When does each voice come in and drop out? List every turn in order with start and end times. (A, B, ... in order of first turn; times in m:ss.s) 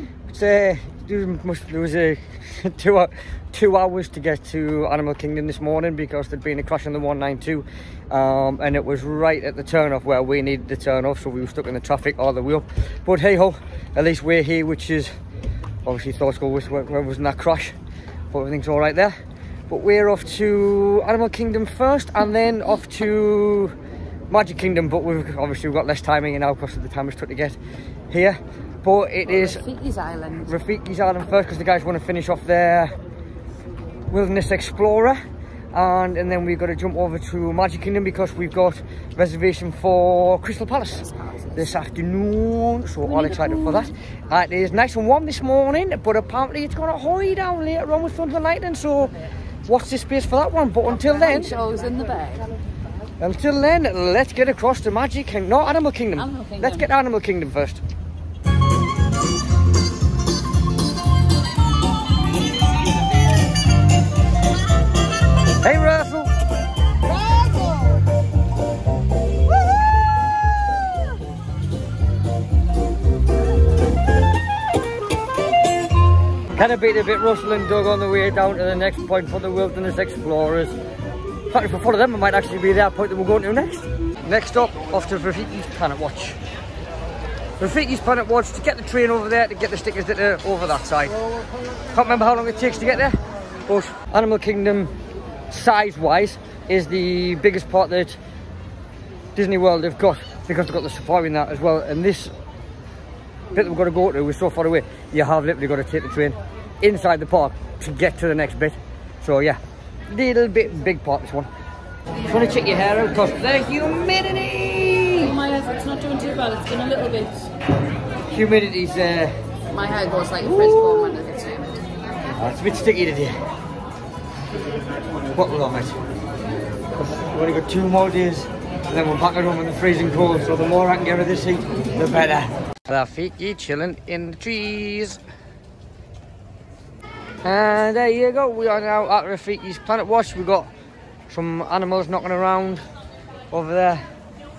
0:00.3-0:15.1 A
0:15.8-0:17.8 A
0:18.3-0:19.2 A
0:19.7-0:23.8 A
0:24.3-0:27.6 A
0:28.1-0:29.6 A
0:29.3-0:30.5 B
0:30.4-0:33.0 A
0:34.1-0:35.2 A
0:35.7-0:49.1 A
0:43.1-0:43.9 B
0:49.7-0:51.5 A
0:50.9-0:52.5 B
0:53.2-0:57.8 A
0:56.2-0:56.9 B
1:05.6-1:06.3 A
1:16.6-1:20.8 A
1:21.5-1:26.4 A
1:27.6-1:31.2 A
1:31.9-1:34.9 A
1:35.5-1:38.2 A
1:39.4-1:42.3 A
1:43.5-1:51.5 A
1:52.3-1:55.3 A
1:55.2-1:57.5 B
1:58.3-1:59.4 A
1:59.7-2:01.8 B
2:00.4-2:01.2 A
2:02.4-2:03.4 A
2:05.3-2:06.0 A
2:07.0-2:15.2 A
2:17.4-2:20.7 A
2:21.3-2:22.8 A
2:23.5-2:24.0 A